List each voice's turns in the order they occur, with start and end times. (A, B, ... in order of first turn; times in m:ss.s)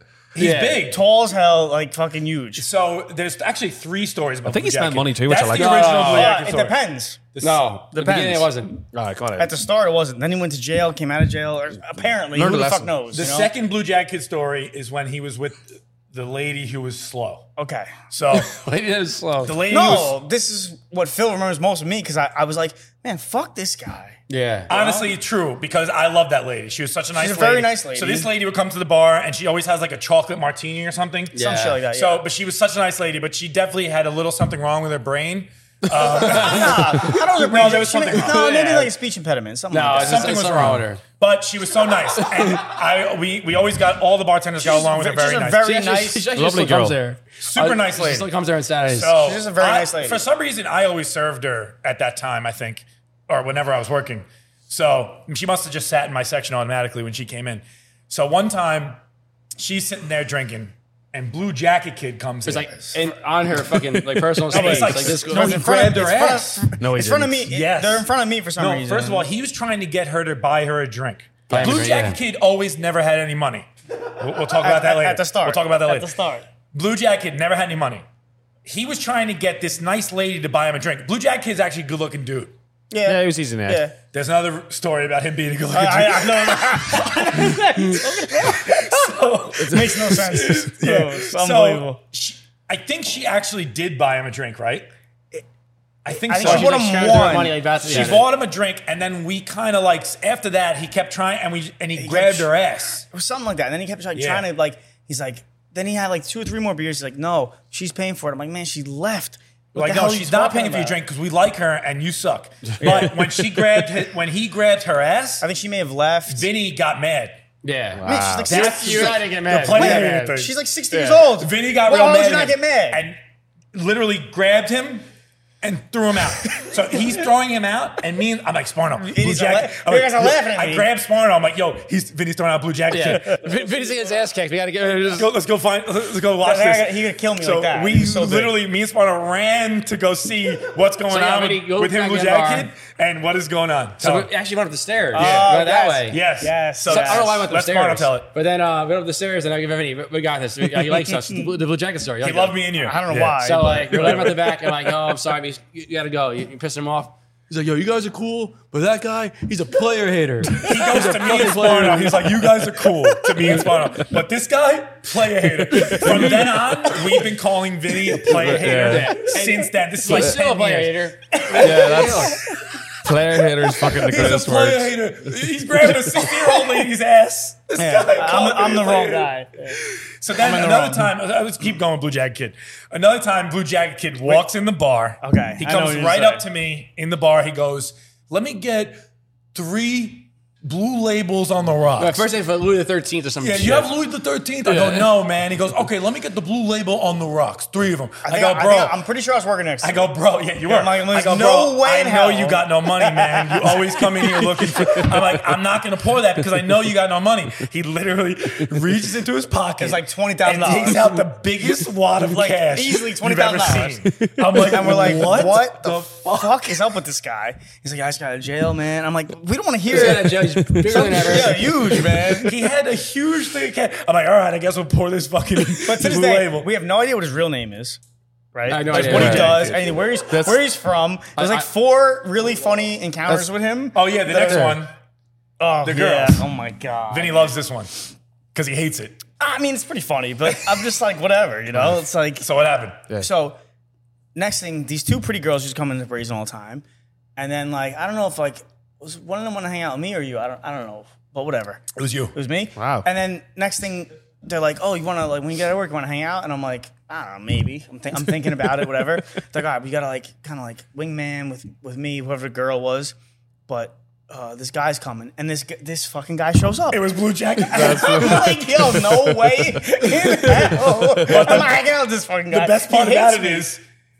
0:00.3-0:01.0 A
0:00.4-0:00.8 B
0:00.7-0:02.6 C
0:02.6-0:06.8 A
0:04.4-0:05.9 D
0:05.5-0:06.4 B
0:06.0-0:07.2 C
0:07.3-0:07.7 A
0:07.4-0:08.8 B
0:07.9-0:08.5 C
0:08.9-0:09.5 D
0:09.4-0:13.5 C
0:12.3-0:12.9 D
0:13.1-0:17.5 A
0:17.6-0:18.0 C
0:18.1-0:18.6 A
0:18.3-0:19.6 B
0:19.4-0:20.2 A
0:19.6-0:25.0 C
0:24.3-0:24.7 B
0:24.7-0:38.6 A
0:27.1-0:28.3 C
0:31.3-0:31.8 B
0:31.3-0:32.3 C
0:36.0-0:40.4 C
0:36.2-0:36.7 B
0:38.2-0:38.9 B
0:39.7-0:41.0 B
0:39.9-0:45.6 A
0:44.6-0:46.3 C
0:45.6-0:49.2 B
0:46.3-0:47.0 D
0:47.4-0:48.3 A
0:48.9-0:59.0 A
0:49.2-0:50.2 C
0:59.6-1:02.9 A
1:02.4-1:05.7 B
1:04.3-1:06.7 A
1:04.5-1:09.3 C
1:06.8-1:07.5 D
1:07.5-1:13.7 A
1:11.5-1:12.2 B
1:14.2-1:16.1 A
1:14.6-1:16.4 C
1:16.7-1:18.0 A
1:18.6-1:22.5 A
1:22.9-1:24.0 C
1:23.0-1:23.8 D
1:24.1-1:34.9 A
1:25.7-1:32.0 C
1:29.7-1:30.0 D
1:36.0-1:43.0 A
1:36.1-1:37.6 C
1:36.4-1:38.3 B
1:42.0-1:42.5 C
1:43.1-1:51.0 C
1:44.1-1:44.4 A
1:49.7-1:55.4 A
1:55.4-1:56.5 C
1:56.3-1:57.4 A
1:57.6-2:00.3 B
1:57.9-1:58.5 D
1:58.0-2:03.0 C
1:58.5-2:03.2 A
2:03.7-2:05.0 A
2:05.6-2:13.4 A
2:09.0-2:10.9 C
2:12.9-2:15.3 B
2:15.2-2:24.3 A
2:16.4-2:18.5 C
2:21.1-2:22.7 B
2:24.0-2:26.2 B
2:25.1-2:27.4 C
2:25.2-2:25.5 A
2:26.1-2:28.3 A
2:26.8-2:32.6 B
2:32.2-2:33.4 A
2:32.8-2:34.3 C
2:33.4-2:42.5 B
2:33.9-2:34.5 A
2:40.5-2:51.1 A
2:43.4-2:43.6 D
2:45.6-2:46.4 D
2:48.3-2:52.4 B
2:48.3-2:49.2 D
2:50.1-2:50.4 D
2:51.4-2:52.0 C
2:51.5-2:52.5 D
2:53.0-2:54.9 D
2:53.8-2:59.3 A
2:55.9-2:56.3 D
2:57.8-2:59.8 C
2:59.8-3:09.0 A
3:00.3-3:01.1 C
3:05.2-3:06.4 C
3:09.5-3:12.2 A
3:12.0-3:13.9 B
3:13.4-3:19.0 A
3:14.7-3:15.0 B
3:18.2-3:25.0 C
3:19.8-3:36.8 A
3:29.8-3:31.2 C
3:32.2-3:34.0 C
3:34.2-3:34.6 D
3:34.6-3:42.7 C
3:39.9-3:42.0 B
3:41.9-3:46.7 A
3:45.8-3:48.0 C
3:48.5-3:54.8 C
3:48.7-3:49.6 B
3:48.9-3:49.9 A
3:49.0-3:49.5 D
3:50.3-3:50.6 D
3:51.4-3:51.7 B
3:53.9-3:54.9 A
3:54.5-3:54.8 D
3:55.6-3:57.6 C
3:55.8-3:56.4 A
3:57.1-3:57.9 A
3:58.5-3:59.2 A
3:59.4-4:02.5 C
4:02.4-4:03.0 A
4:03.1-4:03.6 C
4:04.3-4:06.8 C
4:07.4-4:11.8 C
4:12.0-4:12.3 A
4:12.3-4:23.1 C
4:12.8-4:13.1 D
4:23.7-4:27.1 C
4:26.9-4:29.1 A
4:27.7-4:29.2 D
4:27.7-4:33.7 C
4:30.4-4:31.8 A
4:31.0-4:31.3 D
4:32.5-4:33.8 A